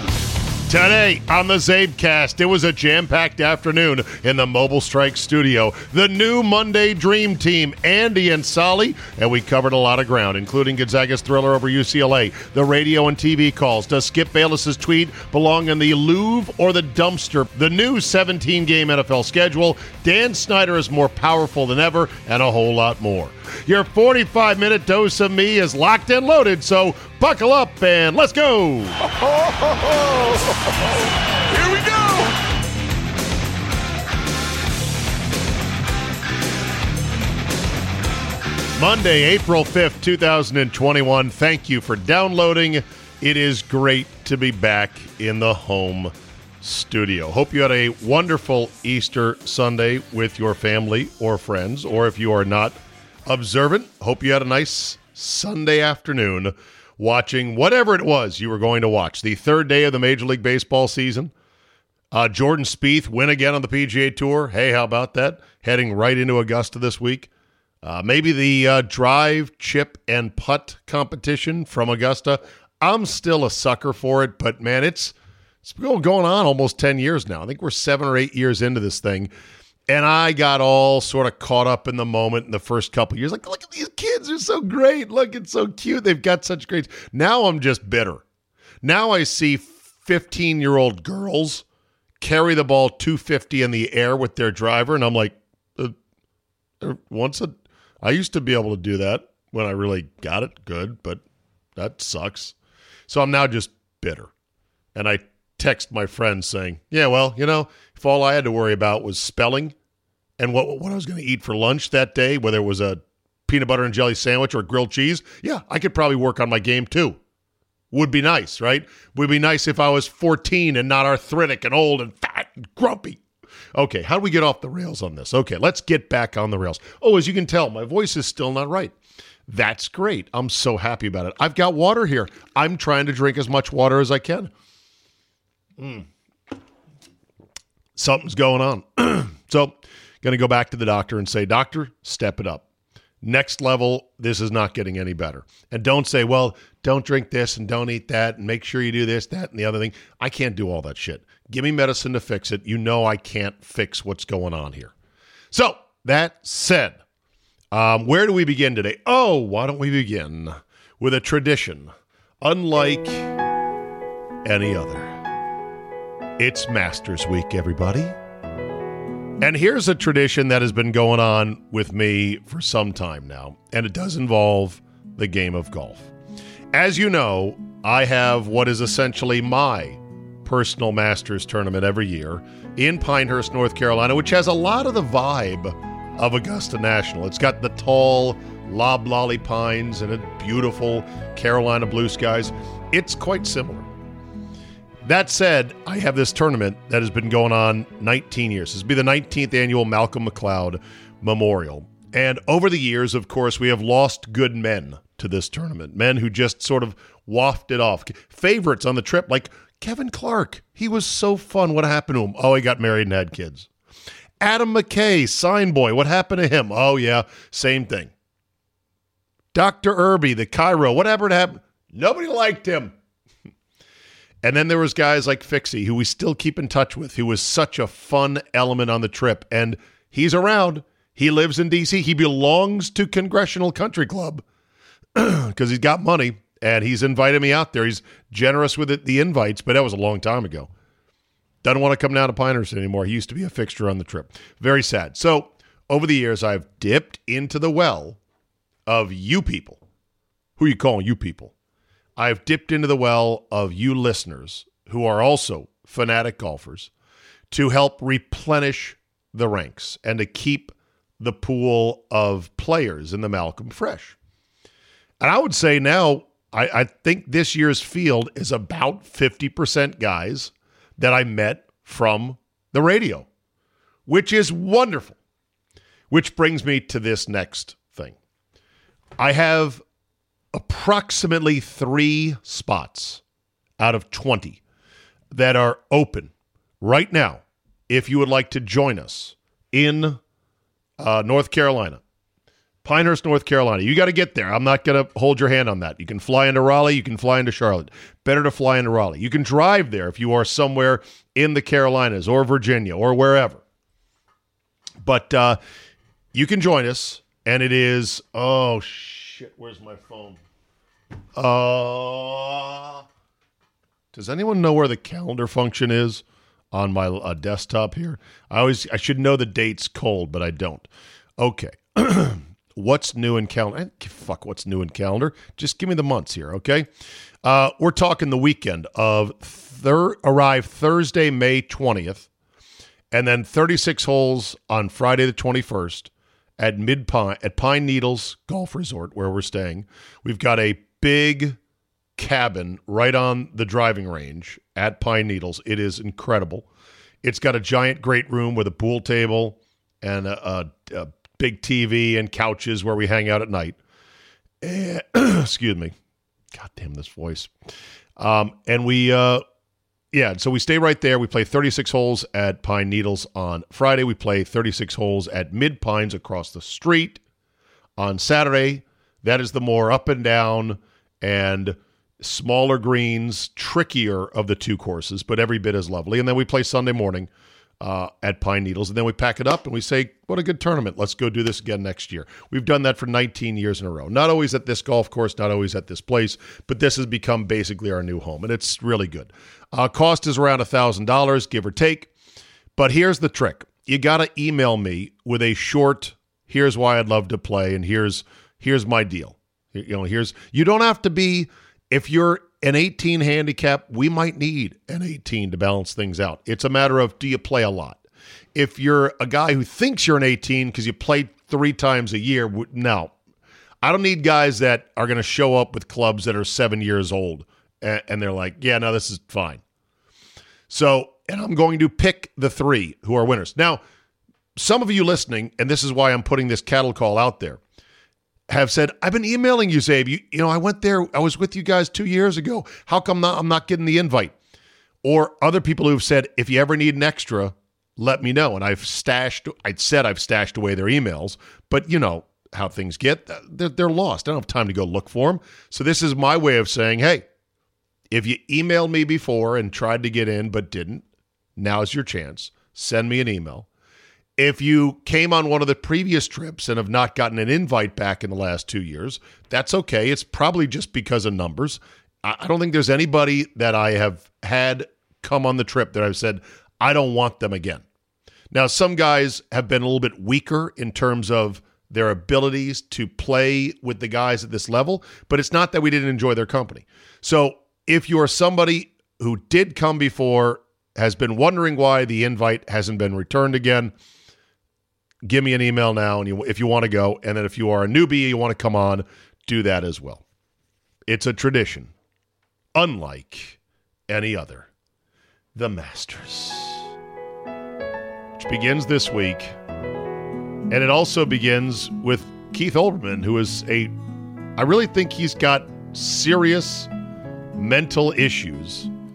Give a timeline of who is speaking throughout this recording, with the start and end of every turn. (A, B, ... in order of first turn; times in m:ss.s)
0:00.7-0:29.1 A
0:38.8-1:01.3 A
1:02.1-1:07.3 A
1:07.8-1:19.3 A
1:19.9-1:28.2 A
1:28.8-1:31.6 A
1:32.2-1:36.0 A
1:36.8-1:41.2 A
1:41.8-1:42.6 A
1:43.1-1:44.3 A
1:45.0-1:49.8 A
1:50.4-1:57.2 A
1:57.9-2:03.2 A
2:03.7-2:08.9 A
2:09.5-2:14.5 A
2:15.8-2:16.1 A
2:18.0-2:22.6 A
2:23.2-2:34.9 A
2:35.5-2:37.0 A
2:37.7-2:41.9 A
2:42.4-2:43.3 A
2:44.4-2:45.2 A
2:46.4-2:48.2 A
2:49.4-2:56.1 A
2:56.7-3:13.9 A
3:15.0-3:33.7 A
3:34.4-3:38.1 A
3:39.5-3:43.0 A
3:44.4-3:54.4 A
3:55.2-4:00.7 A
4:01.6-4:08.2 A
4:08.9-4:09.8 A
4:10.6-4:11.5 A
4:12.2-4:16.9 A
4:17.5-4:24.2 A
4:25.2-4:33.3 A
4:34.1-4:35.2 A
4:36.1-4:38.2 A
4:39.2-4:39.8 A
4:40.5-4:43.2 A
4:43.8-4:44.6 A
4:45.3-4:50.2 A
4:51.0-4:52.0 A
4:52.8-5:03.6 A
5:05.0-5:05.6 A
5:06.3-5:10.4 A
5:11.4-5:13.0 A
5:14.1-5:26.9 A
5:27.4-5:32.3 A
5:33.1-5:41.6 A
5:42.2-5:46.7 A
5:47.2-5:53.8 A
5:54.6-5:55.9 A
5:56.5-5:57.5 A
5:58.2-5:59.4 A
6:00.1-6:07.2 A
6:08.0-6:17.3 A
6:17.8-6:32.1 A
6:32.8-6:48.0 A
6:48.6-6:53.1 A
6:53.8-6:59.6 A
7:00.7-7:03.8 A
7:04.6-7:07.6 A
7:08.5-7:14.4 A
7:15.0-7:27.3 A
7:28.1-7:31.0 A
7:31.6-7:33.7 A
7:34.4-7:47.8 A
7:48.5-8:03.9 A
8:05.2-8:10.2 A
8:11.1-8:11.9 A
8:12.8-8:13.6 A
8:14.1-8:14.7 A
8:15.6-8:16.9 A
8:18.4-8:19.5 A
8:20.7-8:23.9 A
8:24.6-8:26.9 A
8:27.6-8:28.9 A